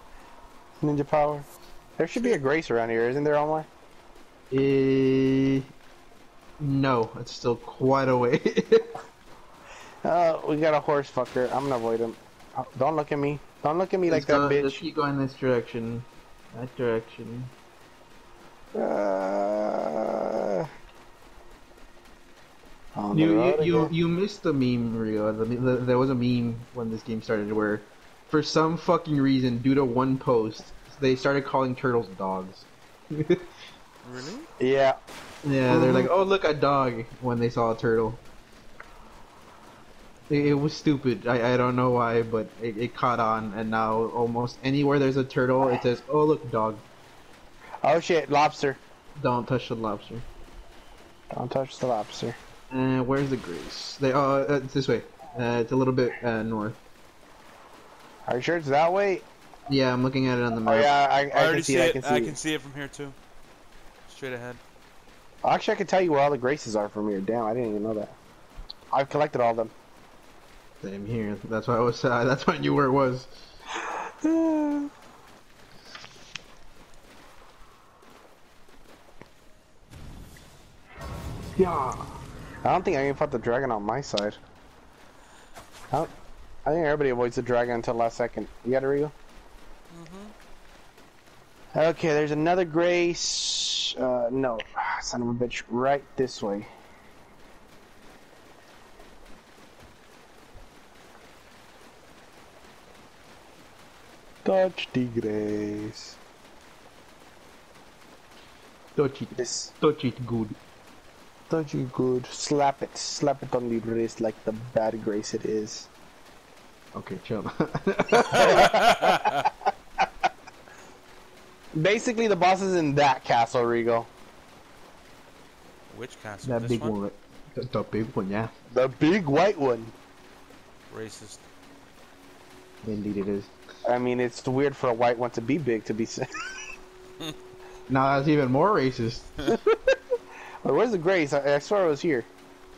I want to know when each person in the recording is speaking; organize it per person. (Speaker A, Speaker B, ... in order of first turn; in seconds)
Speaker A: 0.8-1.5, 2.0-3.7, 10.0-14.8, 18.8-20.7, 22.9-23.9, 34.6-35.0, 35.7-36.1, 47.8-48.8, 51.3-52.4, 58.3-59.2, 60.7-62.4, 65.4-68.2, 68.9-69.7, 74.2-74.9, 81.6-82.0, 82.6-84.4, 86.7-89.1, 91.7-96.7, 104.5-106.2, 109.4-109.7, 111.5-115.9, 118.3-119.4, 121.8-124.1, 128.7-129.9, 133.9-136.3, 140.6-142.3
Speaker B: 2.1-2.4, 34.0-34.5, 61.3-63.2, 64.1-64.6, 89.9-90.3, 118.4-119.5, 125.9-127.0, 130.9-131.4
Speaker C: 4.5-5.7, 6.6-8.9, 14.1-17.5, 23.1-33.5, 35.4-38.2, 40.3-46.8, 49.2-50.2, 52.7-56.8, 59.7-60.9, 70.8-73.3, 109.0-110.6, 116.9-118.7, 126.4-128.5, 132.8-133.5, 137.9-139.5